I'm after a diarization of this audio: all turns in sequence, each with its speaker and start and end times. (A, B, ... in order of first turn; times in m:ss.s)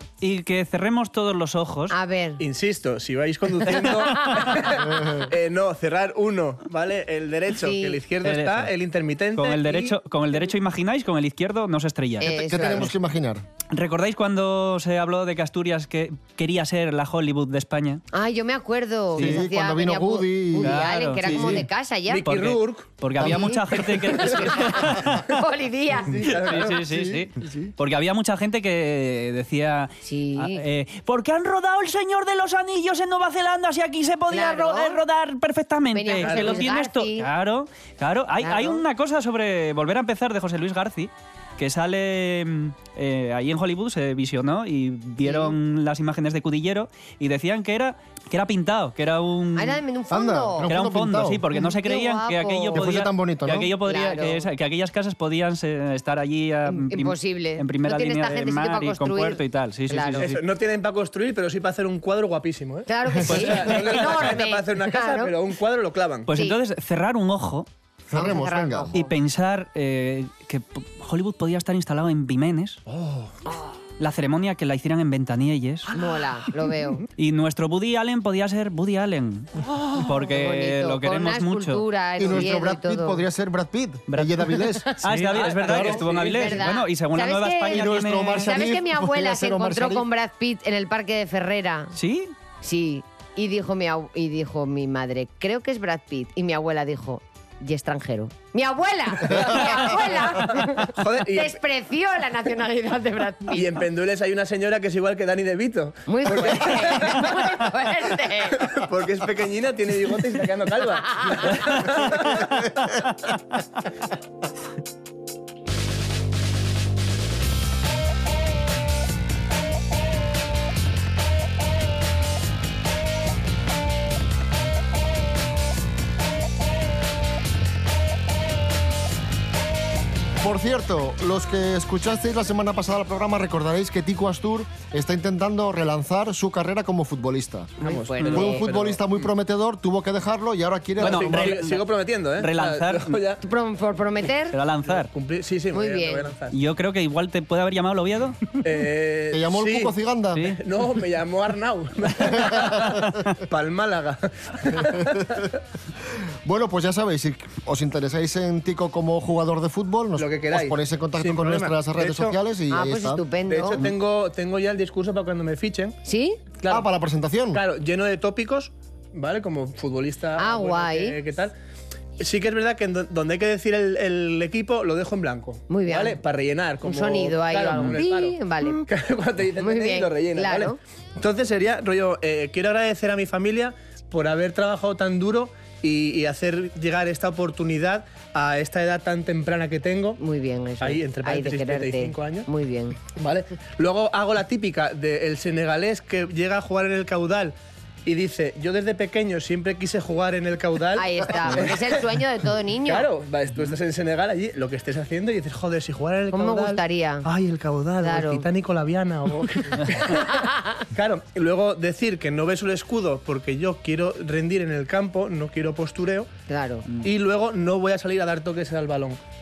0:00.2-0:02.0 A
0:01.9-0:02.4 B
0:02.4-0:09.9 C
0:04.3-0:04.6 B
0:04.9-0:05.3 D
0:07.6-0:08.0 B
0:08.2-0:08.7 A
0:09.4-0:12.3 A
0:12.2-0:12.9 B
0:12.3-0:13.4 D
0:13.7-0:18.0 A
0:18.1-0:22.2 B
0:19.1-0:21.6 D
0:20.6-0:21.7 A
0:22.1-0:23.3 C
0:22.2-0:25.3 A
0:23.2-0:23.5 D
0:23.8-0:24.5 C
0:24.2-0:26.3 B
0:26.1-0:26.8 C
0:26.1-0:27.7 D
0:26.4-0:49.8 A
0:30.0-0:30.6 B
0:34.3-0:35.0 B
0:35.9-0:37.3 B
0:36.2-0:36.7 C
0:38.4-0:38.8 B
0:45.2-0:45.5 B
0:49.6-0:50.7 B
0:50.1-0:51.4 D
0:50.6-1:00.4 A
0:51.6-0:52.8 B
0:52.7-0:53.7 D
0:53.8-0:54.4 B
0:56.7-1:00.3 B
1:00.2-1:06.3 C
1:02.9-1:05.3 B
1:03.3-1:04.4 A
1:06.3-1:07.7 A
1:08.1-1:08.9 D
1:08.1-1:09.1 B
1:08.9-1:12.8 A
1:12.9-1:13.4 C
1:14.0-1:15.9 A
1:15.9-1:17.0 B
1:17.2-1:22.4 A
1:20.0-1:23.2 B
1:22.2-1:26.0 D
1:24.1-1:28.7 A
1:25.3-1:26.6 C
1:26.3-1:31.9 B
1:27.7-1:30.0 D
1:31.9-1:32.3 A
1:32.6-1:43.8 B
1:39.2-1:41.6 C
1:43.5-1:47.6 C
1:46.1-1:48.7 B
1:48.6-1:52.6 C
1:51.1-1:51.6 B
1:51.6-1:52.4 A
2:10.4-2:17.7 D
2:17.8-2:18.6 B
2:17.8-2:19.3 C
2:18.2-2:18.5 A
2:18.3-2:21.5 D
2:21.0-2:23.2 A
2:21.0-2:23.4 C
2:23.4-2:24.6 B
2:24.5-2:25.1 A
2:25.0-2:26.6 C
2:25.7-2:26.3 B
2:26.5-2:28.6 A
2:28.6-2:29.9 C
2:29.3-2:30.5 D
2:30.5-2:35.5 C
2:32.4-2:32.9 D
2:36.4-2:43.2 D
2:40.2-2:42.4 C
2:42.7-2:43.8 B
2:43.5-2:46.0 C
2:46.0-2:46.4 B
2:46.6-2:46.9 C
2:46.7-2:47.6 D
2:47.5-2:51.5 C
2:50.4-2:51.2 B
2:52.2-3:10.2 C
2:55.7-2:56.2 B
2:56.8-2:58.8 B
2:59.6-3:00.8 B
3:10.2-3:13.0 B
3:10.8-3:12.5 C
3:13.1-3:17.5 C
3:18.0-3:22.0 C
3:21.0-3:23.1 B
3:22.8-3:36.3 C
3:26.3-3:27.3 B
3:28.0-3:28.4 B
3:30.3-3:30.8 B
3:36.5-3:36.8 B
3:37.0-3:39.2 C